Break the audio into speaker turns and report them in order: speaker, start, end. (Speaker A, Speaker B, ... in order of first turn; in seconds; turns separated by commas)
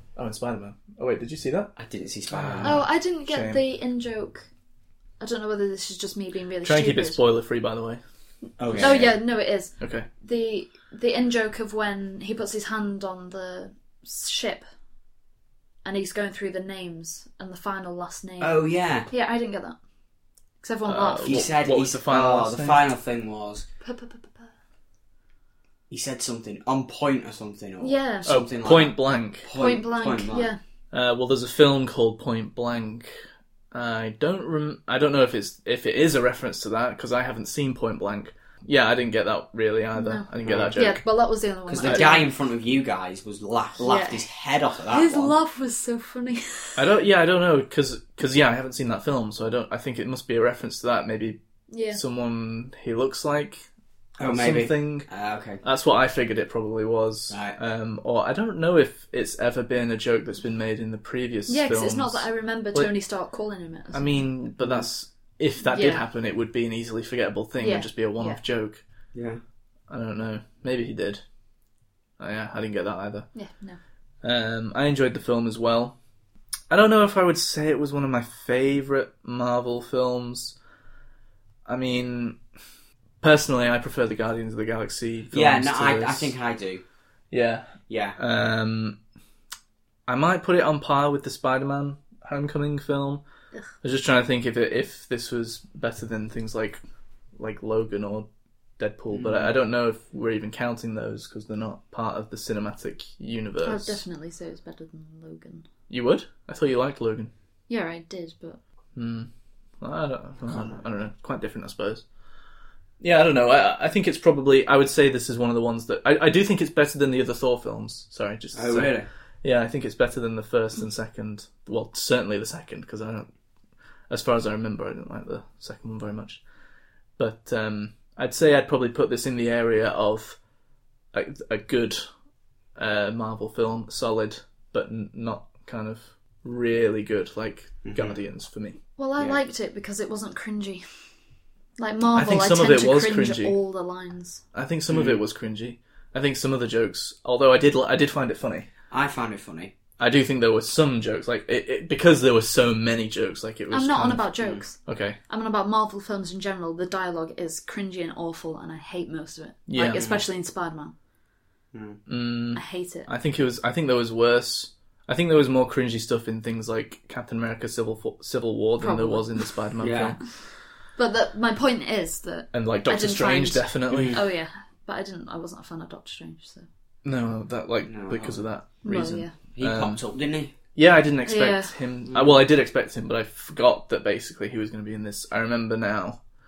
Speaker A: 0.2-1.8, Speaker B: 1.8-2.8, Speaker A: 2.3-3.6, Speaker C: 2.6-4.5, Speaker C: 5.2-7.2, Speaker A: 6.6-8.0, Speaker B: 8.6-9.2, Speaker A: 8.6-9.0, Speaker C: 8.8-14.7, Speaker A: 9.8-10.1, Speaker C: 15.8-19.8, Speaker B: 18.4-19.1, Speaker C: 20.6-21.5, Speaker A: 20.9-22.8, Speaker B: 21.3-23.6, Speaker C: 23.8-24.5, Speaker B: 25.9-30.5, Speaker C: 27.8-28.4, Speaker A: 28.3-29.5, Speaker C: 29.6-30.6, Speaker A: 30.9-33.2, Speaker A: 33.7-41.0, Speaker C: 40.0-42.3, Speaker B: 40.4-40.7, Speaker B: 41.7-45.3, Speaker A: 41.8-42.1, Speaker C: 43.8-44.2, Speaker C: 44.9-46.8, Speaker A: 46.8-51.4, Speaker C: 51.7-52.0, Speaker A: 51.9-53.6, Speaker B: 54.2-55.6, Speaker A: 54.2-55.1, Speaker A: 55.6-62.9, Speaker B: 57.3-57.6, Speaker C: 61.5-64.5, Speaker A: 63.9-68.8, Speaker B: 64.6-64.9, Speaker C: 65.7-66.1, Speaker C: 67.6-68.4, Speaker B: 69.1-69.4, Speaker A: 69.9-71.2, Speaker A: 72.2-73.3, Speaker C: 73.3-73.8, Speaker A: 74.2-76.0, Speaker A: 76.7-80.6, Speaker A: 81.7-82.4, Speaker A: 83.2-86.3, Speaker B: 85.3-86.8, Speaker A: 87.3-89.0, Speaker B: 87.9-88.2, Speaker A: 90.1-93.2, Speaker A: 93.8-96.8, Speaker A: 97.4-98.3, Speaker A: 98.8-104.0, Speaker B: 99.1-99.5, Speaker C: 103.6-105.7, Speaker A: 105.9-107.3, Speaker C: 107.7-108.6, Speaker A: 109.0-112.0, Speaker B: 110.5-110.8, Speaker A: 113.0-123.3, Speaker B: 118.5-119.1, Speaker A: 124.1-126.4, Speaker A: 127.2-130.4, Speaker A: 131.1-132.1, Speaker A: 132.8-138.8, Speaker B: 137.8-138.2, Speaker C: 139.0-140.8, Speaker C: 141.8-144.4, Speaker A: 142.2-143.6, Speaker A: 144.5-148.7, Speaker B: 144.9-145.2, Speaker B: 148.9-149.7, Speaker A: 150.0-155.2, Speaker C: 153.7-154.8, Speaker C: 155.3-160.9, Speaker A: 159.7-160.0, Speaker B: 159.9-160.2, Speaker B: 161.7-162.0, Speaker A: 162.1-170.2, Speaker C: 162.5-163.1, Speaker C: 168.8-169.5, Speaker B: 169.8-170.2, Speaker C: 170.9-176.7, Speaker A: 172.5-174.2, Speaker B: 173.9-174.2, Speaker A: 177.0-180.0, Speaker B: 177.9-178.4, Speaker C: 178.8-179.3, Speaker B: 179.6-180.5, Speaker A: 180.8-186.2, Speaker C: 181.3-181.7, Speaker B: 182.1-182.4